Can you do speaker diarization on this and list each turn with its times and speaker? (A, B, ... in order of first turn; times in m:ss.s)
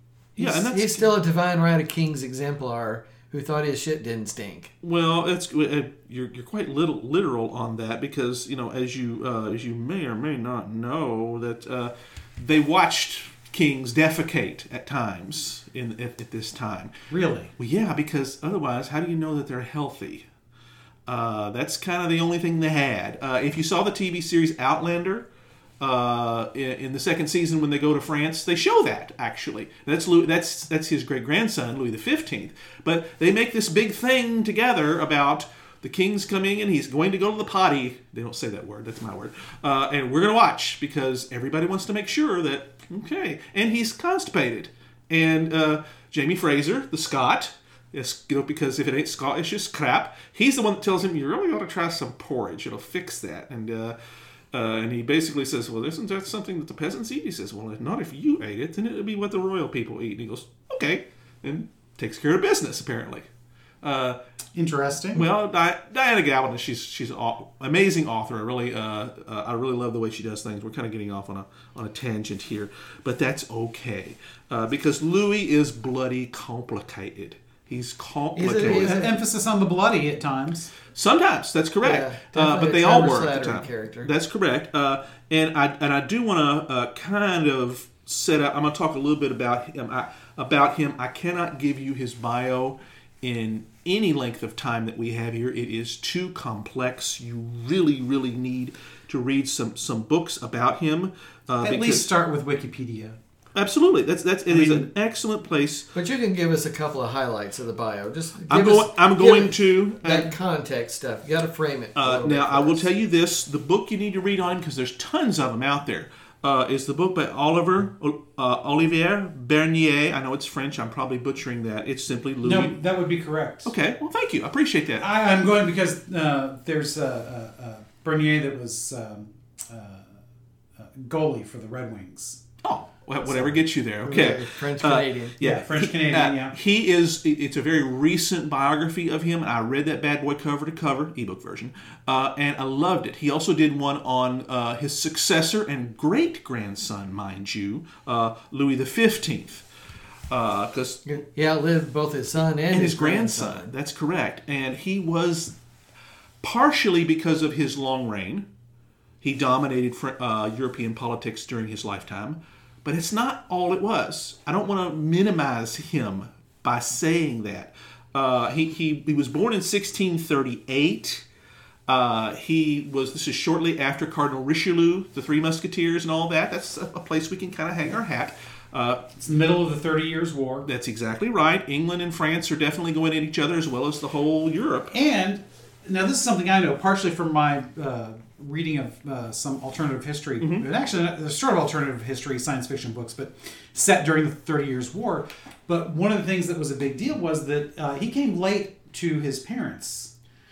0:00.4-0:04.7 A
0:00.4-0:01.1 B
0:04.8-0:16.9 B
0:17.1-0:17.5 C
0:17.6-0:20.3 B
0:21.1-0:25.3 B
0:25.8-0:54.0 B
0:54.5-1:03.3 B
1:03.8-1:04.2 B
1:04.5-1:05.2 C
1:05.1-1:19.0 B
1:18.4-1:19.1 A
1:18.5-1:20.7 C
1:20.9-1:42.1 B
1:21.8-1:24.1 A
1:41.6-1:43.2 C
1:43.5-1:45.9 B
1:44.5-1:44.9 C
1:45.9-1:52.9 A
1:48.5-1:50.3 B
1:52.0-2:02.8 B
2:02.4-2:03.7 C
2:03.6-2:05.0 B
2:05.0-2:10.1 C
2:10.8-2:12.4 C
2:12.6-2:29.7 B
2:14.0-2:15.3 A
2:15.4-2:16.6 C
2:30.3-2:31.0 B
2:31.1-2:33.7 A
2:32.7-2:35.6 B
2:36.4-2:38.5 B
2:39.2-2:51.2 B
2:51.9-2:59.0 B
2:59.2-3:00.7 C
3:00.6-3:04.9 B
3:04.9-3:20.1 C
3:10.4-3:10.7 B